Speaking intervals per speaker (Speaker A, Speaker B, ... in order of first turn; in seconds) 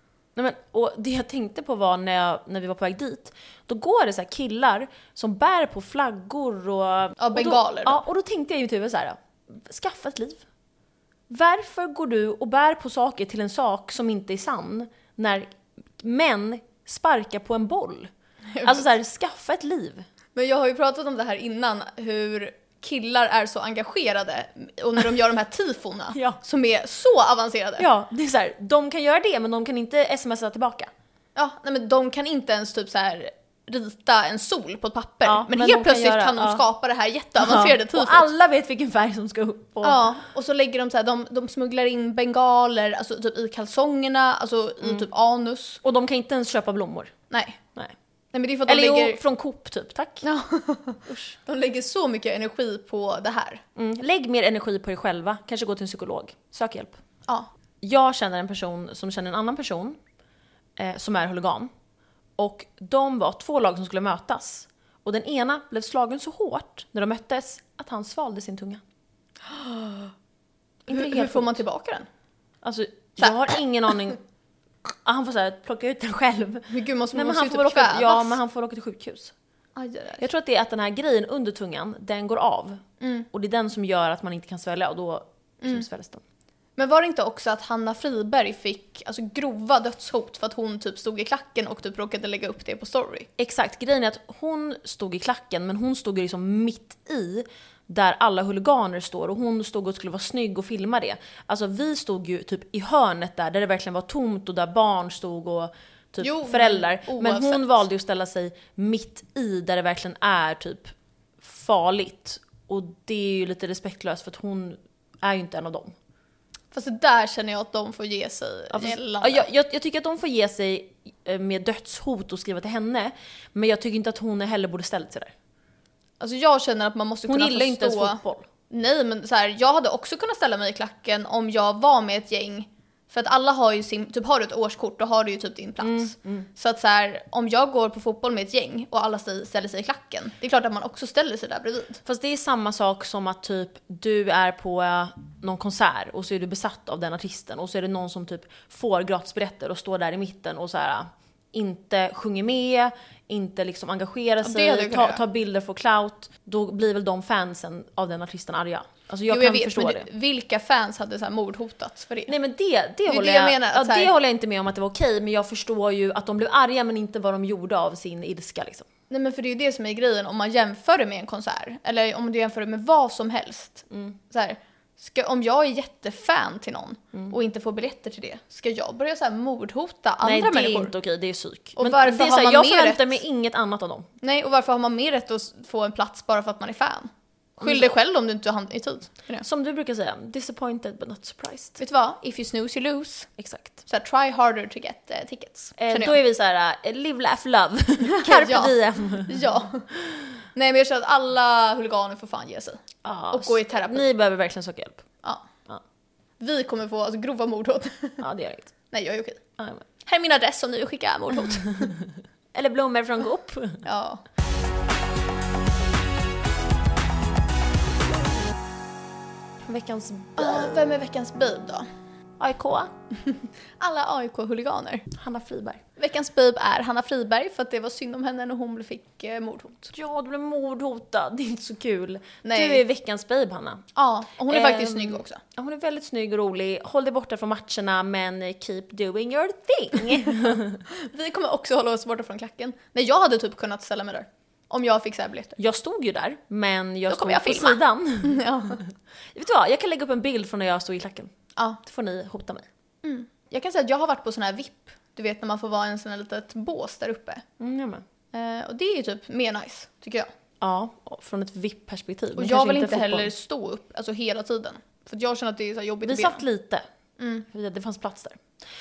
Speaker A: 0.3-10.4, 11.3-20.1, 26.1-26.4, 27.8-30.9, 35.2-36.6, 37.4-40.1, 45.8-47.1, 48.6-50.3, 51.1-51.3, 53.8-57.0, 57.8-60.0, 60.8-61.7, 62.4-68.8, 70.9-71.6, 72.6-74.2, 74.8-79.3, 80.2-86.2, 93.4-115.9, 118.7-125.3, 127.3-128.5, 135.8-136.5, 142.0-160.1, 162.3-168.9, 173.9-174.2, 180.2-184.1, 187.6-187.9, 189.4-191.8, 193.4-193.8, 195.8-199.5, 200.0-200.3, 203.0-205.1, 208.2-208.7, 209.6-209.9, 211.8-213.8, 219.6-220.8, 222.4-222.9, 225.1-225.8, 229.9-233.8, 234.5-240.8, 245.6-248.8, 249.3-252.7, 257.6-258.0, 260.6-263.3, 266.1-266.8, 267.5-268.4
Speaker B: 7.2-8.0, 20.3-27.8, 31.3-38.3, 39.8-45.8, 47.3-47.6, 48.3-49.2, 50.2-53.6, 69.4-70.1, 70.9-72.1, 73.2-73.6, 76.7-78.4, 79.8-80.2, 83.0-83.3, 86.8-93.3, 106.2-107.8, 116.7-119.5, 126.2-142.0, 154.4-155.2, 159.3-162.3, 163.1-164.1, 169.1-180.9, 181.8-183.1, 184.2-189.4, 191.8-193.3, 193.9-196.2, 198.1-199.9, 200.5-204.1, 206.4-208.2, 208.9-209.4, 210.0-211.9, 213.8-214.2, 220.4-221.8, 223.3-225.1, 226.0-229.9, 232.4-232.8, 233.9-235.4, 240.9-245.6, 247.1-248.8, 253.0-257.4, 258.3-260.3, 262.4-266.4, 267.2-267.4